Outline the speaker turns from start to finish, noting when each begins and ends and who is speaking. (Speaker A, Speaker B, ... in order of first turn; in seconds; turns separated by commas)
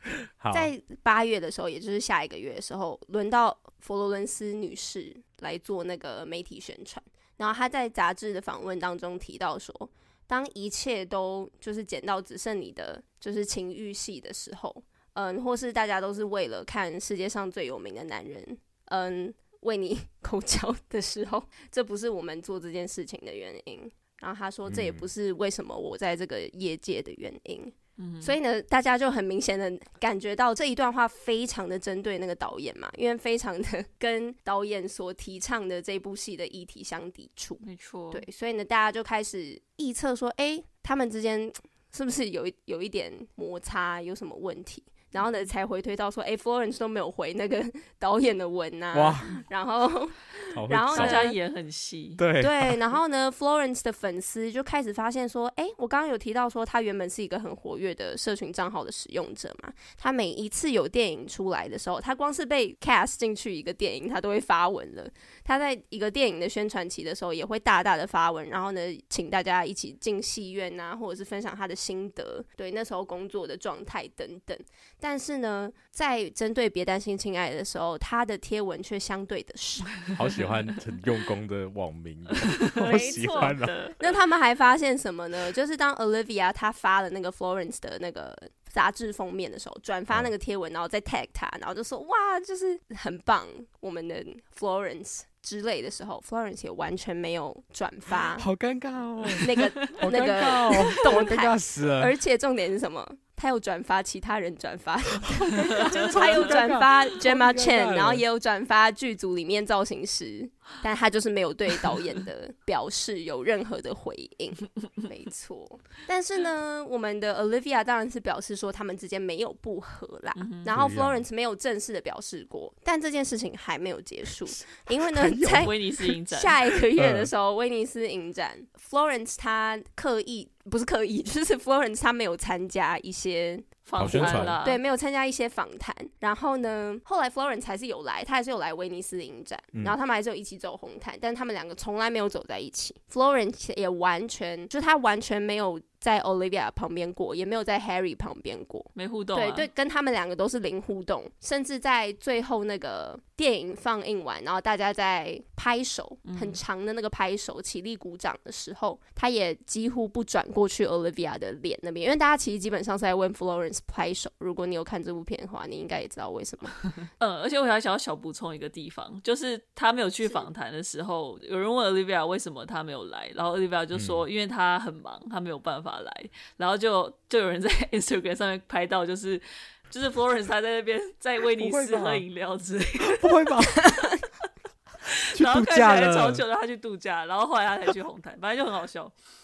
Speaker A: 0.4-0.7, Speaker B: 0.5-51.4, Speaker A: 24.7-25.1, Speaker C: 28.0-28.4, Speaker C: 37.6-38.2, Speaker A: 48.9-49.4, Speaker A: 50.5-51.2, Speaker C: 50.9-52.2, Speaker A: 52.2-52.8, Speaker B: 52.4-80.0, Speaker A: 80.1-83.8, Speaker C: 82.4-84.1, Speaker B: 82.8-98.5, Speaker A: 98.4-102.1, Speaker B: 99.4-166.8, Speaker A: 105.5-108.2, Speaker C: 105.9-106.4, Speaker C: 120.3-120.7, Speaker A: 120.7-121.2, Speaker A: 124.5-125.7, Speaker C: 125.4-126.6, Speaker A: 127.0-127.3, Speaker C: 133.8-134.8, Speaker A: 134.0-134.6, Speaker C: 148.9-149.7, Speaker C: 156.2-156.6, Speaker C: 167.2-183.5, Speaker A: 173.9-174.2, Speaker A: 181.6-182.2, Speaker A: 183.0-184.0, Speaker B: 183.8-184.2, Speaker A: 185.3-186.4, Speaker C: 185.3-189.1